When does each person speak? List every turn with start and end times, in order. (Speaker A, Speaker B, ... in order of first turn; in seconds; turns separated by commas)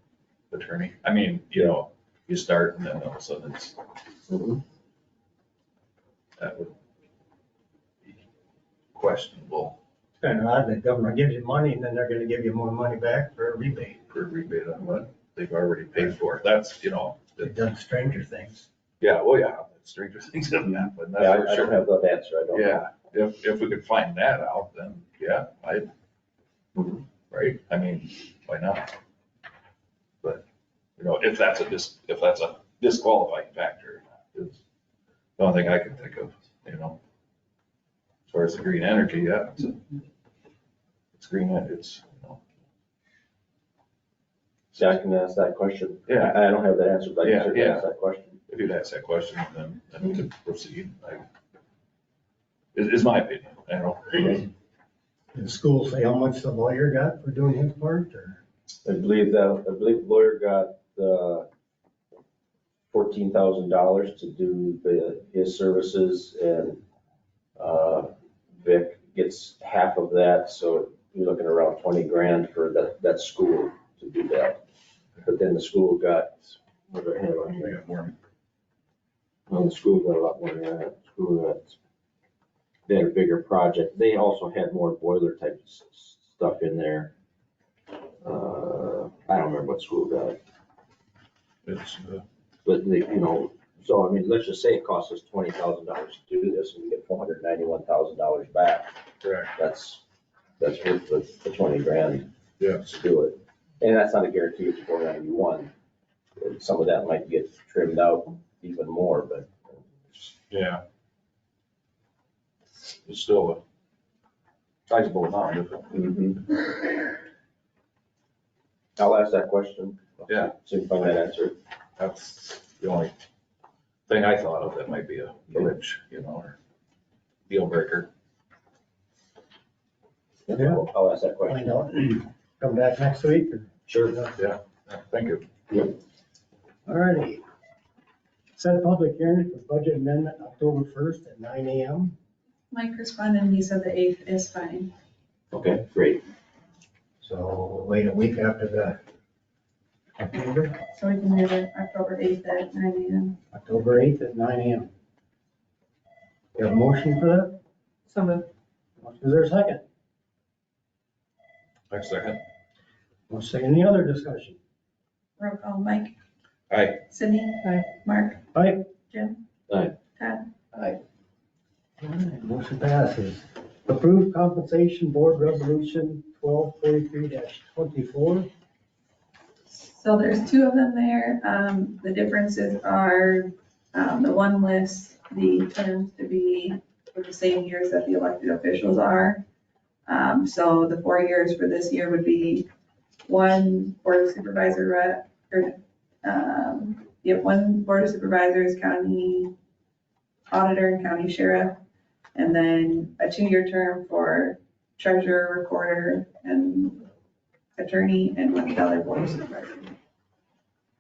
Speaker A: 0.5-3.8, Speaker B: 4.3-4.6, Speaker A: 6.4-6.7, Speaker A: 8.9-9.8, Speaker C: 10.2-14.0, Speaker A: 14.1-17.5, Speaker C: 17.4-18.7, Speaker A: 19.0-21.9, Speaker B: 21.2-22.9, Speaker A: 22.5-25.9, Speaker B: 26.8-27.0, Speaker A: 27.3-28.9, Speaker A: 31.0-34.6, Speaker A: 35.4-37.0, Speaker A: 38.3-39.8, Speaker A: 41.1-42.4, Speaker B: 44.7-48.4, Speaker A: 46.1-46.4, Speaker A: 47.2-47.9, Speaker A: 48.5-51.2, Speaker A: 52.7-54.5, Speaker C: 55.3-58.4, Speaker B: 58.9-61.5, Speaker B: 62.9-66.8, Speaker B: 67.6-74.6, Speaker B: 75.2-77.8, Speaker A: 77.5-78.2, Speaker B: 79.5-81.8, Speaker B: 82.9-87.1, Speaker B: 88.2-90.4, Speaker A: 91.6-92.2, Speaker B: 92.7-98.9, Speaker A: 99.2-99.5, Speaker B: 99.5-100.0, Speaker B: 100.6-102.3, Speaker A: 102.6-102.9, Speaker B: 102.8-105.7, Speaker B: 106.4-110.3, Speaker A: 110.5-110.8, Speaker A: 113.0-113.6, Speaker A: 114.9-116.5, Speaker B: 115.9-116.4, Speaker B: 119.0-121.5, Speaker A: 120.3-120.5, Speaker A: 122.0-123.1, Speaker A: 124.1-126.6, Speaker A: 127.5-128.1, Speaker B: 130.5-131.6, Speaker C: 130.5-130.8, Speaker C: 131.5-134.4, Speaker B: 133.9-134.2, Speaker A: 134.4-135.5, Speaker C: 136.9-137.4, Speaker C: 138.6-142.2, Speaker D: 142.7-144.9, Speaker B: 145.5-146.2, Speaker C: 147.2-149.0, Speaker C: 150.2-150.8, Speaker D: 150.9-153.4, Speaker C: 153.5-154.9, Speaker C: 156.6-158.5, Speaker C: 159.0-159.8, Speaker A: 161.9-162.4, Speaker C: 163.3-164.6, Speaker D: 165.4-166.1, Speaker A: 166.7-167.0, Speaker D: 167.1-168.4, Speaker C: 168.5-168.9, Speaker D: 169.1-169.4, Speaker B: 169.7-170.0, Speaker D: 170.2-170.5, Speaker C: 170.7-171.0, Speaker C: 172.0-178.5, Speaker D: 179.7-189.4, Speaker D: 190.1-192.7, Speaker D: 193.3-199.5, Speaker D: 200.5-201.8, Speaker D: 202.3-207.1, Speaker D: 207.8-209.9